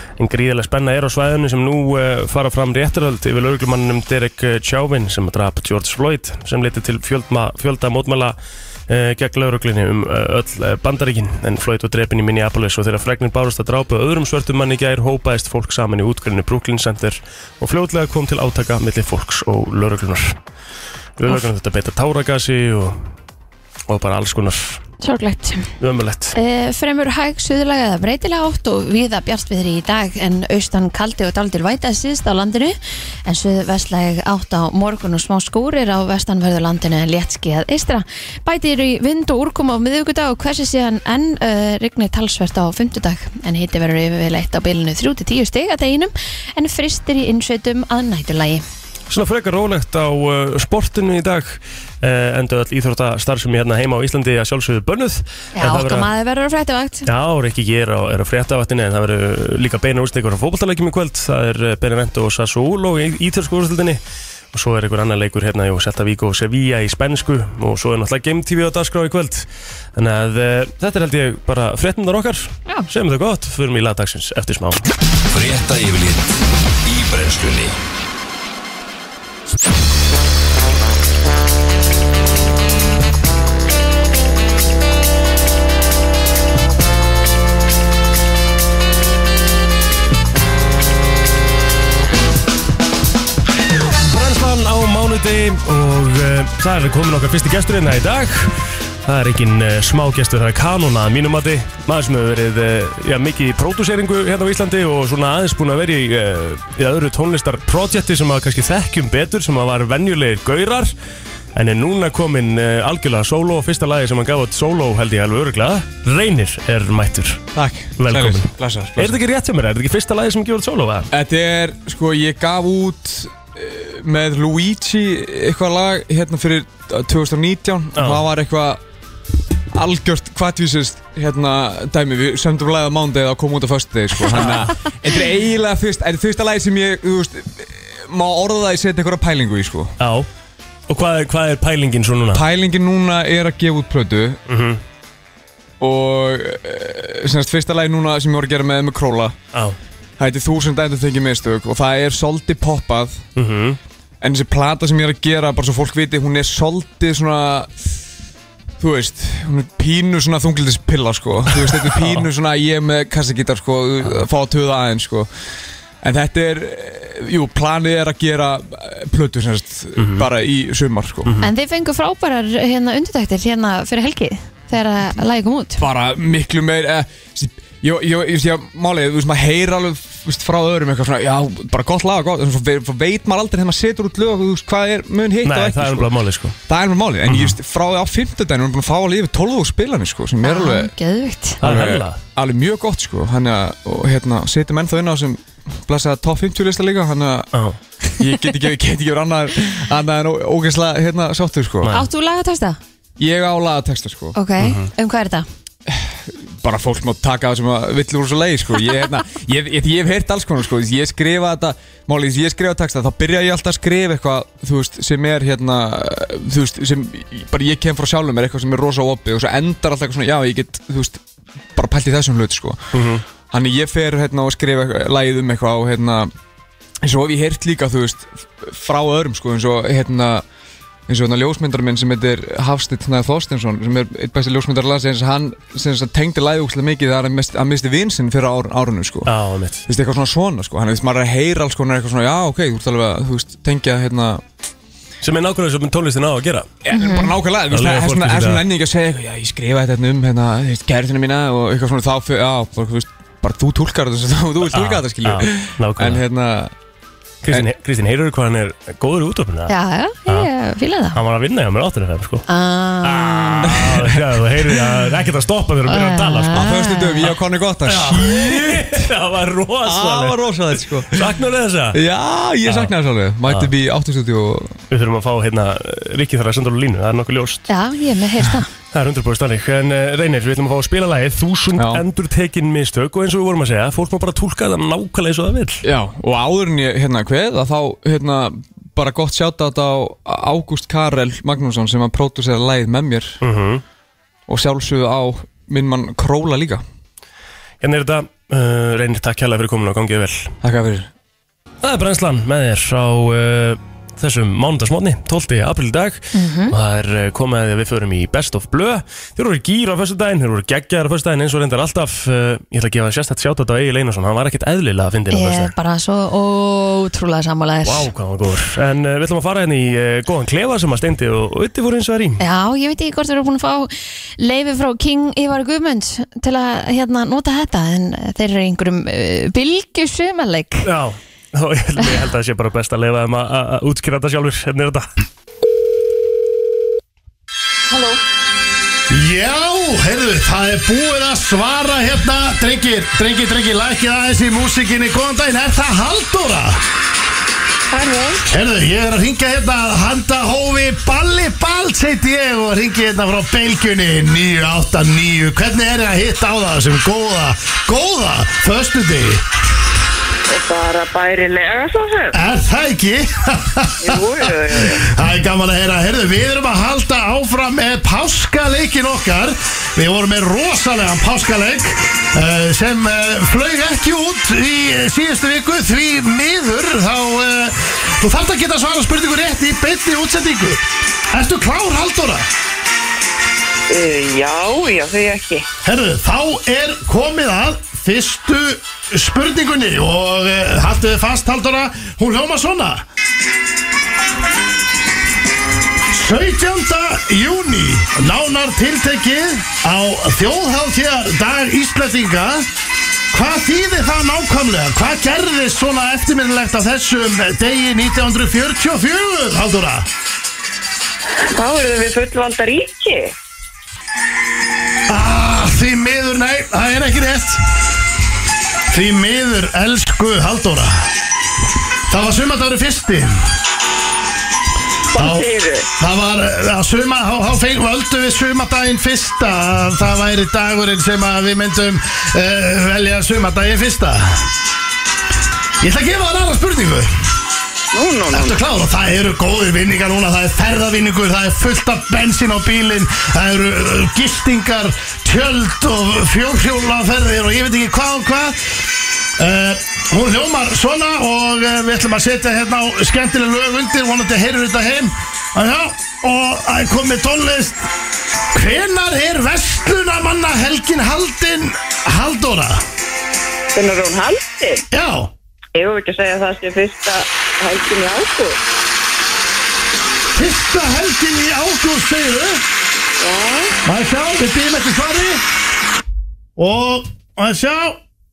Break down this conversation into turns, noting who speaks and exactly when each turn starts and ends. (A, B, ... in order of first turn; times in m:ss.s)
0:00.2-0:08.4 A
0:08.9-0:20.4 A
0:21.2-0:23.0 A
0:23.9-0:24.8 A
0:25.0-0:25.7 B
0:25.8-0:26.3 A
0:26.3-0:48.6 B
0:49.1-0:56.1 A
0:55.6-0:57.1 B
0:57.1-1:04.0 A
1:04.5-1:14.9 A
1:15.3-1:17.8 C
1:34.0-1:38.5 A
1:39.0-1:50.9 A
1:51.5-1:57.4 A
1:57.5-1:59.2 D
1:58.0-2:01.1 A
2:01.1-2:08.8 D
2:08.0-2:08.2 A
2:09.7-2:19.9 D
2:20.0-2:20.3 A
2:20.9-2:22.4 A
2:22.3-2:24.4 D
2:24.5-2:24.8 A
2:25.8-2:29.4 D
2:30.2-2:33.3 D
2:33.4-2:33.8 A
2:34.2-2:37.7 D
2:38.8-2:45.3 D
2:41.8-2:42.2 A
2:46.0-2:51.4 D
2:50.0-2:50.3 A
2:51.2-2:51.5 A
2:51.4-2:55.8 B
2:55.8-3:06.1 D
3:05.4-3:06.6 A
3:06.7-3:10.9 D
3:07.3-3:07.5 A
3:10.4-3:11.6 B
3:11.6-3:17.5 D
3:11.6-3:12.2 A
3:18.2-3:21.9 D
3:21.8-3:22.1 A
3:21.9-3:22.8 B
3:23.2-3:24.4 D
3:24.4-3:25.4 B
3:24.6-3:24.9 A
3:25.9-3:41.2 D
3:41.8-3:43.0 D
3:42.9-3:43.2 A
3:43.5-3:46.3 D
3:47.0-3:50.4 D
3:51.1-3:59.3 D
3:59.2-3:59.8 A
3:59.9-4:04.4 D
4:05.2-4:06.7 A
4:06.8-4:16.7 D
4:06.9-4:07.3 B
4:07.7-4:08.6 A
4:14.6-4:16.2 A
4:17.4-4:19.7 A
4:19.7-4:21.2 B
4:21.1-4:22.4 A
4:22.5-4:23.7 B
4:23.0-4:26.7 A
4:23.6-4:24.9 D
4:25.9-4:27.3 B
4:26.5-4:29.1 D
4:27.9-4:32.0 A
4:29.8-4:31.3 D
4:31.9-4:34.8 D
4:32.6-4:32.9 A
4:34.9-4:37.7 A
4:37.7-4:38.7 B
4:38.9-4:45.8 A
4:41.7-4:42.0 D
4:45.8-4:53.4 D
4:53.4-4:53.8 A
4:54.5-4:56.8 D
4:57.8-5:00.5 A
5:00.6-5:01.1 D
5:01.8-5:15.7 A
5:06.3-5:06.7 B
5:15.3-5:18.1 B
5:17.8-5:22.4 A
5:22.4-5:30.9 B
5:30.8-5:35.1 A
5:37.9-5:38.2 E
5:39.1-5:46.8 F
5:47.9-5:48.4 E
5:48.4-5:59.4 F
6:00.5-6:02.4 E
6:02.3-6:22.4 F
6:04.0-6:05.1 E
6:23.9-6:25.7 E
6:25.8-6:33.0 F
6:36.1-6:42.7 F
6:43.3-6:50.1 F
6:51.5-6:53.3 E
6:55.1-6:57.6 F
6:58.9-7:01.1 F
7:02.1-7:03.4 F
7:05.1-7:05.9 E
7:05.2-7:05.4 F
7:06.0-7:14.4 F
7:15.8-7:17.1 F
7:17.9-7:18.6 E
7:18.3-7:28.7 F
7:29.4-7:37.9 F
7:38.5-7:42.8 F
7:43.7-7:44.8 E
7:44.9-7:45.3 F
7:45.7-7:48.6 E
7:50.4-7:52.6 F
7:53.2-7:53.7 E
7:53.8-7:55.4 F
7:56.6-7:58.0 F